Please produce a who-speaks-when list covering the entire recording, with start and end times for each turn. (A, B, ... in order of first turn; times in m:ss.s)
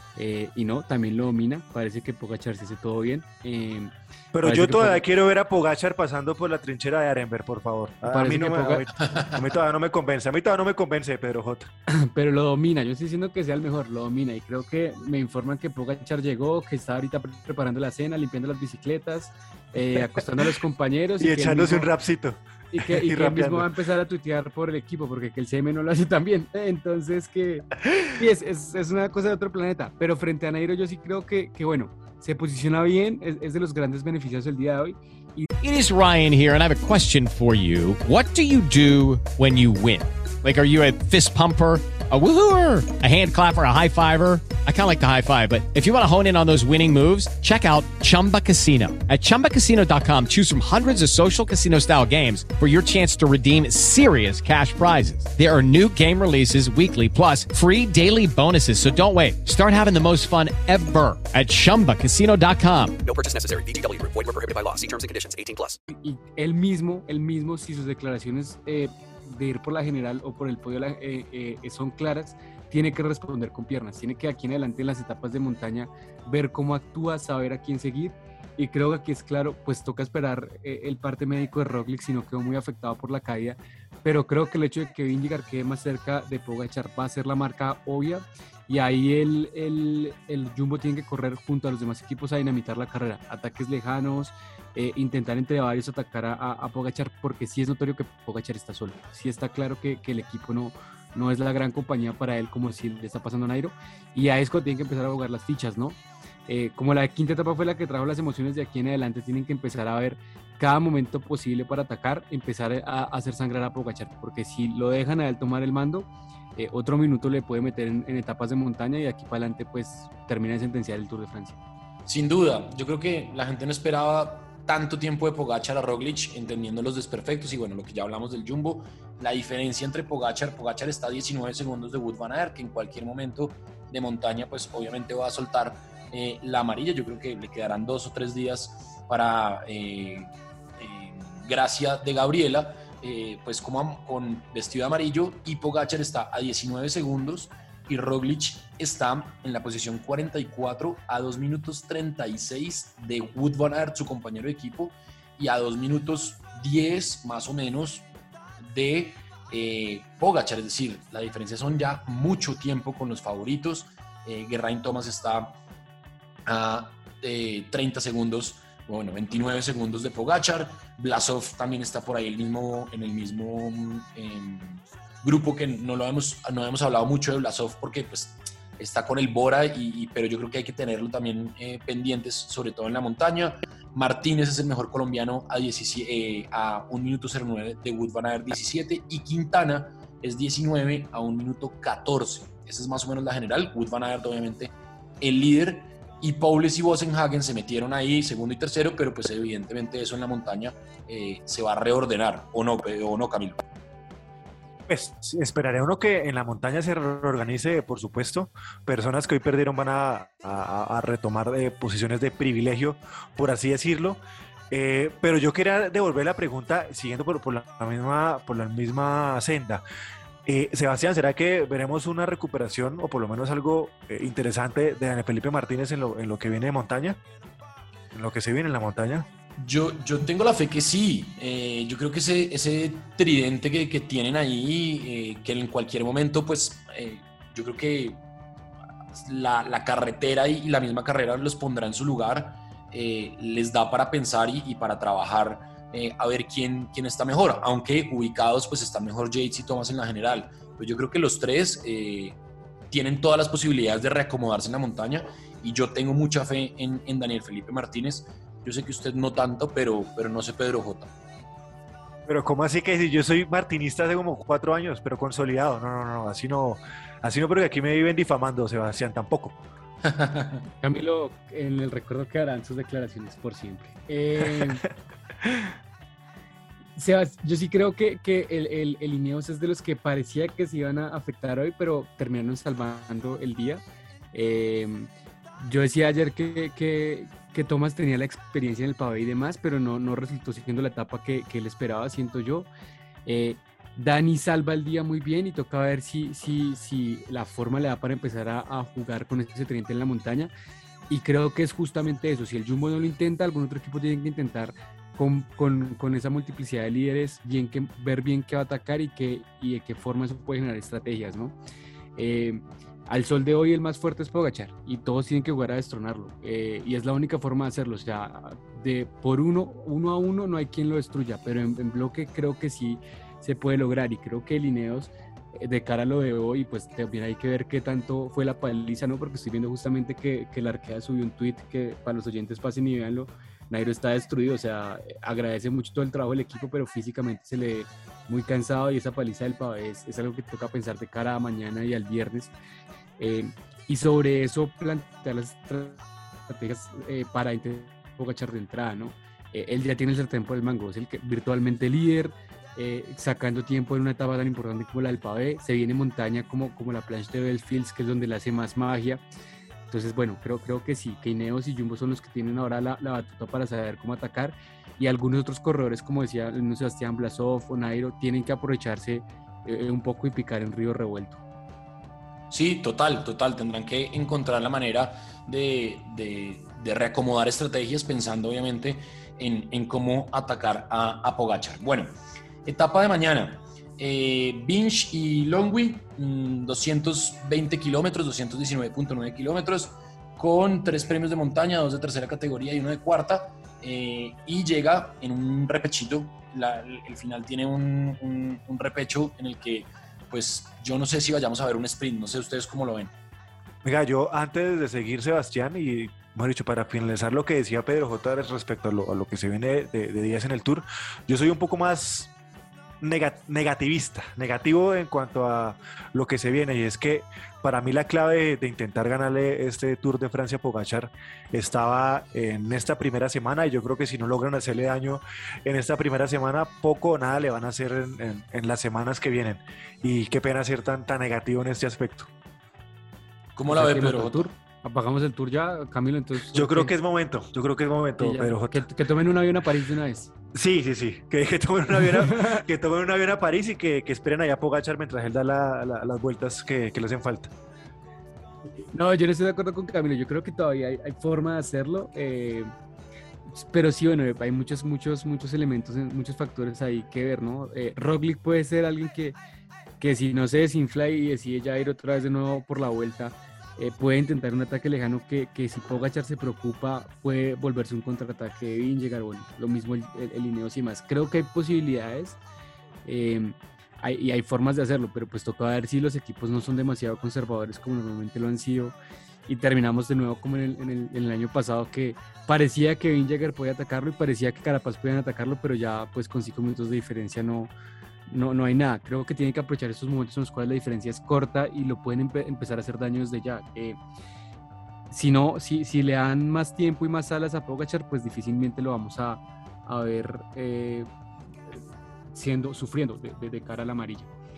0:00.2-0:05.0 A
0:04.3-0:11.7 B
0:08.1-0:08.9 A
0:11.9-0:21.9 A
0:21.2-0:23.7 B
0:22.7-0:35.5 A
0:35.6-1:03.0 C
1:03.0-1:05.8 D
1:05.9-2:01.6 A
2:02.1-2:38.1 E
2:38.6-2:45.6 E
2:46.5-3:23.6 E
3:24.9-3:39.8 B
3:40.5-3:47.2 B
3:48.1-3:49.3 B
3:49.6-3:58.2 E
3:59.2-4:12.4 E
4:12.9-4:21.1 E
4:22.2-4:29.6 B
4:30.0-4:30.6 E
4:30.8-4:34.8 A
4:35.4-4:35.7 B
4:37.0-4:43.8 A
4:44.3-4:52.7 A
4:53.3-5:00.5 A
5:01.1-5:11.6 A
5:12.2-5:42.5 A
5:43.2-5:59.2 A
5:59.9-6:11.4 A
6:12.5-6:43.1 E
6:43.8-6:52.3 B
6:53.0-7:12.3 B
7:13.6-7:14.5 E
7:13.7-7:16.9 A
7:16.5-7:18.9 B
7:18.2-7:20.3 A
7:20.5-7:27.5 B
7:22.0-7:22.6 A
7:28.9-7:32.7 A
7:33.5-7:39.4 A
7:40.0-7:52.4 A
7:53.0-7:59.0 A
7:59.5-8:07.7 A
8:08.3-8:14.0 A
8:15.1-8:21.1 A
8:22.3-8:24.3 A